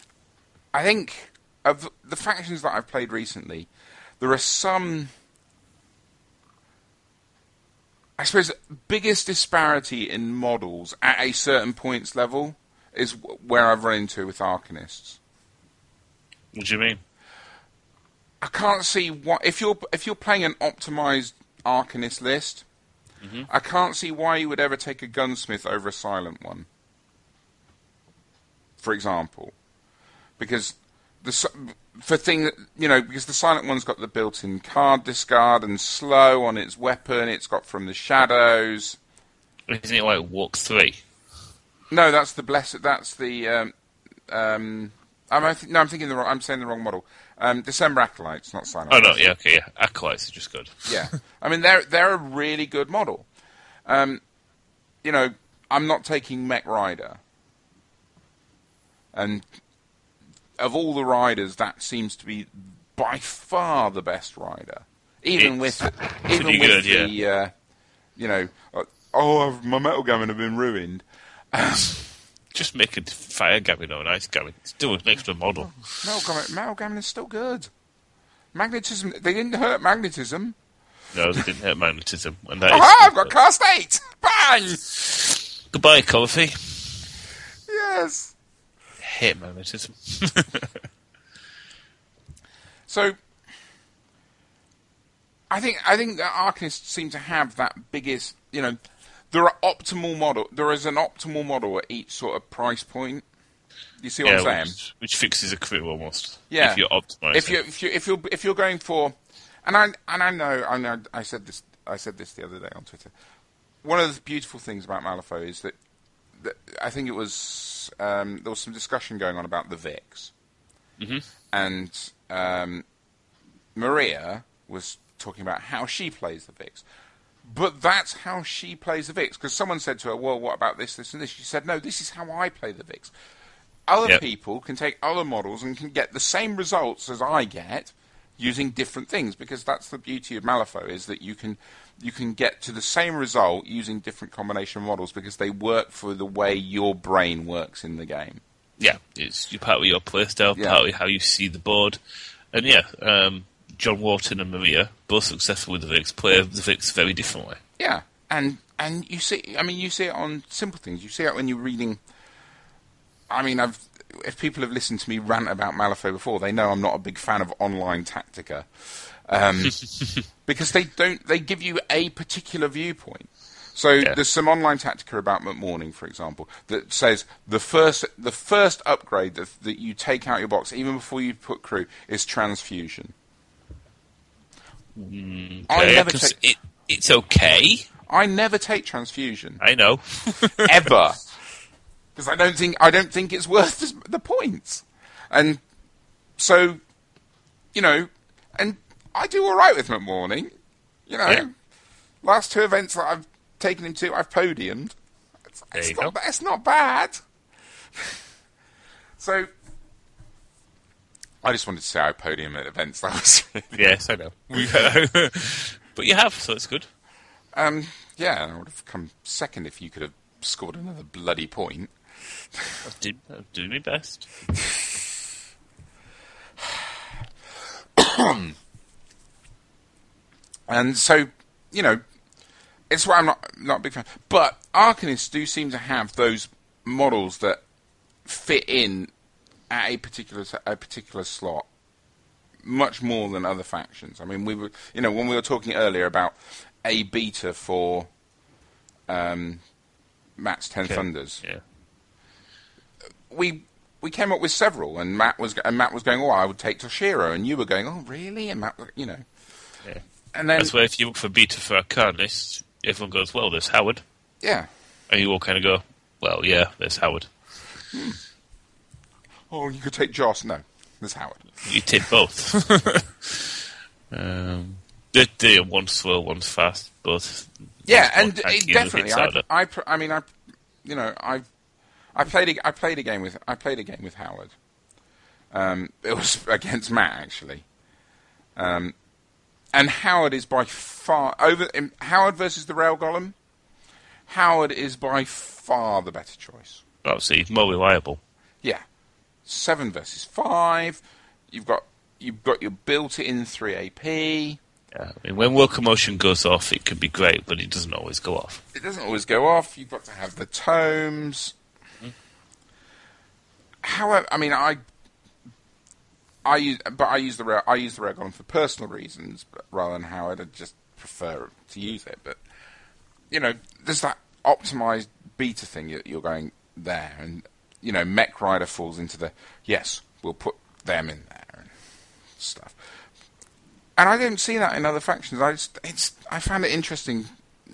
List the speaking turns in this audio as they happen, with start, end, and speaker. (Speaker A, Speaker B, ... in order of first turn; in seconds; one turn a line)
Speaker A: 0.7-3.7
Speaker A: 4.2-5.1
Speaker A: 8.2-15.2
Speaker B: 16.5-17.0
Speaker A: 18.4-22.6
Speaker A: 23.5-26.7
Speaker A: 28.8-29.5
Speaker A: 30.4-39.0
Speaker B: 39.7-41.0
Speaker A: 41.9-43.7
Speaker A: 44.3-49.2
Speaker B: 48.9-51.0
Speaker A: 50.9-53.3
Speaker A: 53.9-54.2
Speaker A: 55.0-57.2
Speaker A: 59.1-59.5
Speaker A: 60.6-67.5
Speaker B: 65.4-67.1
Speaker A: 68.2-72.1
Speaker B: 72.5-75.8
Speaker A: 76.0-77.7
Speaker A: 78.5-80.6
Speaker B: 81.1-83.3
Speaker A: 82.7-84.9
Speaker B: 85.1-87.0
Speaker A: 87.7-88.3
Speaker B: 89.0-90.7
Speaker A: 92.9-93.2
Speaker A: 95.5-98.8
Speaker A: 99.3-103.2
Speaker A: 104.0-104.8
Speaker B: 104.2-107.6
Speaker A: 106.5-113.1
Speaker A: 113.8-115.8
Speaker A: 116.4-120.3
Speaker B: 121.0-121.2
Speaker A: 121.5-122.8
Speaker A: 123.8-126.8
Speaker A: 127.5-133.1
Speaker A: 133.9-148.4
Speaker B: 148.8-152.0
Speaker A: 150.5-150.8
Speaker B: 152.5-157.6
Speaker A: 157.8-162.0
Speaker A: 163.3-169.8
Speaker A: 170.4-183.1
Speaker B: 184.9-187.9
Speaker A: 185.7-186.4
Speaker A: 188.1-189.6
Speaker B: 189.6-190.8
Speaker A: 190.5-191.2
Speaker A: 192.2-195.6
Speaker A: 196.4-196.8
Speaker A: 197.7-200.5
Speaker A: 201.1-201.5
Speaker A: 202.2-204.9
Speaker A: 205.5-207.2
Speaker B: 205.8-206.2
Speaker A: 209.2-209.5
Speaker A: 211.4-213.9
Speaker B: 213.8-216.9
Speaker A: 214.5-214.9
Speaker A: 217.6-221.9
Speaker B: 222.9-224.3
Speaker A: 228.0-228.5
Speaker A: 230.7-232.0
Speaker A: 232.9-237.6
Speaker A: 238.2-239.1
Speaker A: 239.7-241.7
Speaker A: 242.6-248.1
Speaker A: 249.1-249.6
Speaker A: 250.4-251.4
Speaker B: 250.8-251.6
Speaker A: 253.3-259.2
Speaker A: 260.3-260.7
Speaker B: 260.6-264.0
Speaker A: 264.4-264.7
Speaker B: 265.1-267.3
Speaker A: 267.9-268.2
Speaker A: 269.5-271.5
Speaker B: 271.6-273.6
Speaker B: 274.1-279.4
Speaker A: 277.9-280.3
Speaker A: 280.8-281.4
Speaker A: 282.1-284.5
Speaker A: 285.5-287.6
Speaker A: 288.6-288.9
Speaker A: 289.7-293.4
Speaker A: 294.3-296.8
Speaker B: 297.1-298.2
Speaker A: 299.5-304.6
Speaker B: 304.9-308.6
Speaker A: 308.7-311.6
Speaker A: 313.8-314.8
Speaker A: 316.4-322.4
Speaker A: 323.3-331.7
Speaker A: 332.4-332.8
Speaker A: 334.0-337.3